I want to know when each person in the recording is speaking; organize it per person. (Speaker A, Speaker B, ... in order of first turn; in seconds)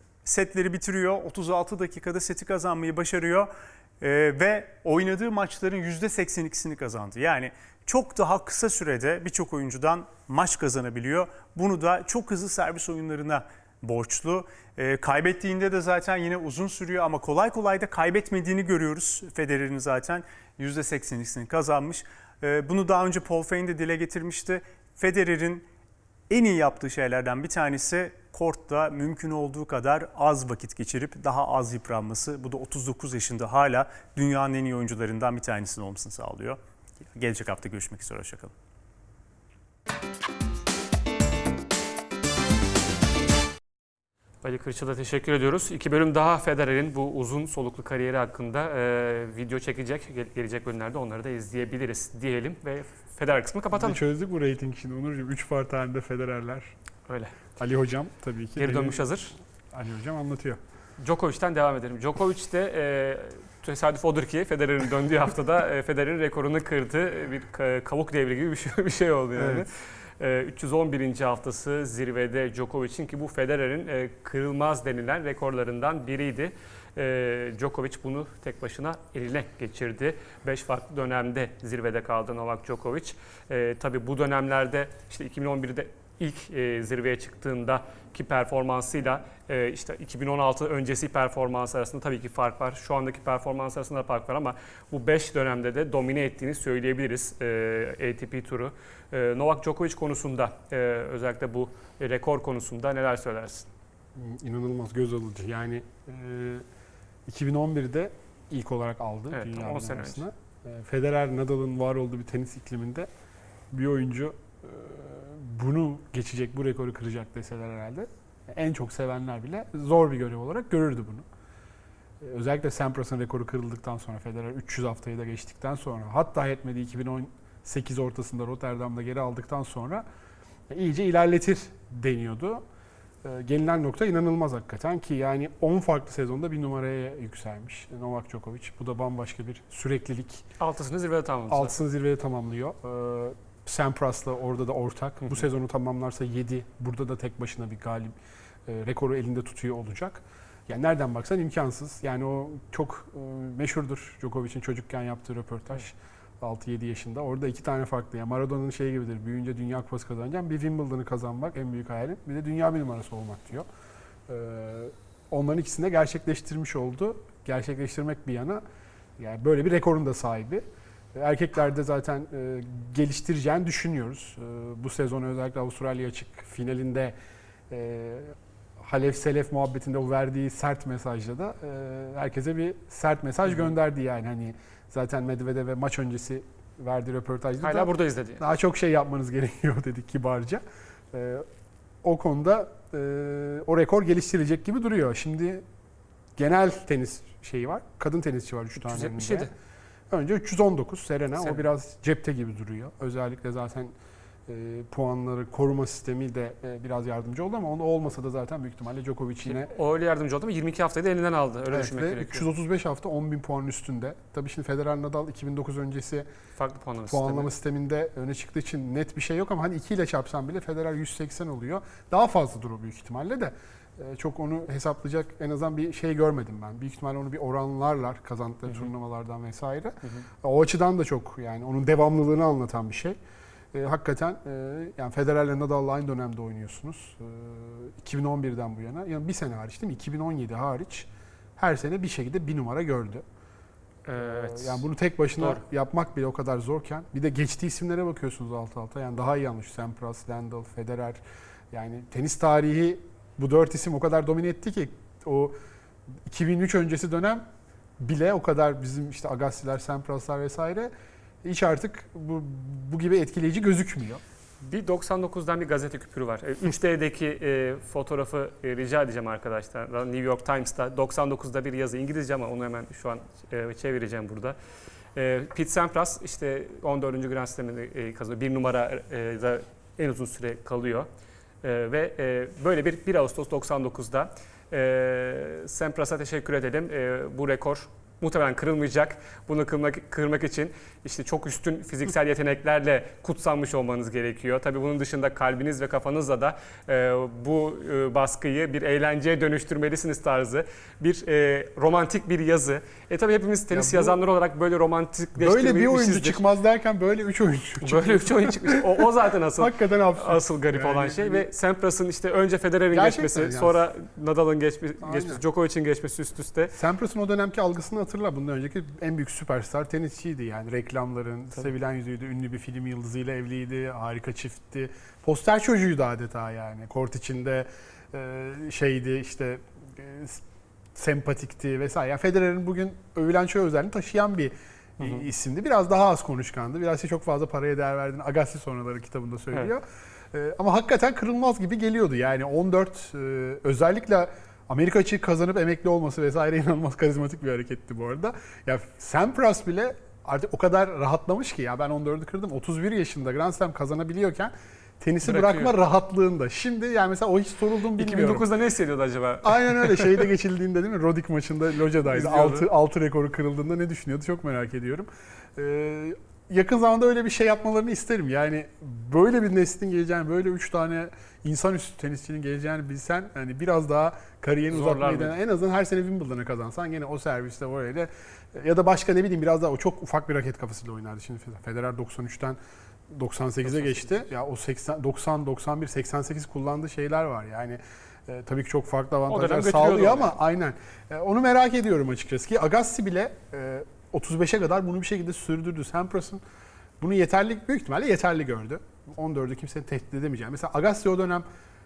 Speaker A: 0.2-25.7, 26.3-36.6, 37.1-38.5
Speaker B: 44.4-54.0, 57.1-57.4, 58.6-59.4, 61.0-103.7, 109.3-110.2, 140.6-141.8, 187.6-188.4, 198.8-199.5, 209.5-212.5, 216.6-217.5, 244.1-244.8, 264.6-274.6, 275.1-281.1, 281.6-306.4, 307.8-316.7, 355.2-355.7, 358.0-360.3, 362.1-362.7, 374.7-375.4, 383.7-384.1, 389.3-390.3
Speaker C: 53.7-56.7, 57.6-59.1, 59.7-60.6, 69.4-69.7, 104.2-106.6, 107.3-113.1, 113.7-121.3, 122.2-130.1, 130.7-132.6, 133.2-140.4, 141.5-148.2, 148.7-163.7, 164.3-168.6, 169.2-177.2, 177.7-191.4, 192.0-195.6, 196.4-199.5, 200.1-203.9, 204.5-209.7, 211.7-216.3, 217.1-233.2, 233.7-243.2, 244.2-251.2, 251.7-255.6, 256.3-257.4, 258.0-260.9, 261.4-264.2, 303.7-304.2, 305.4-311.5, 312.9-313.8, 315.0-315.4, 316.7-330.4, 330.9-358.5, 359.4-382.6, 383.1-396.4, 397.0-401.5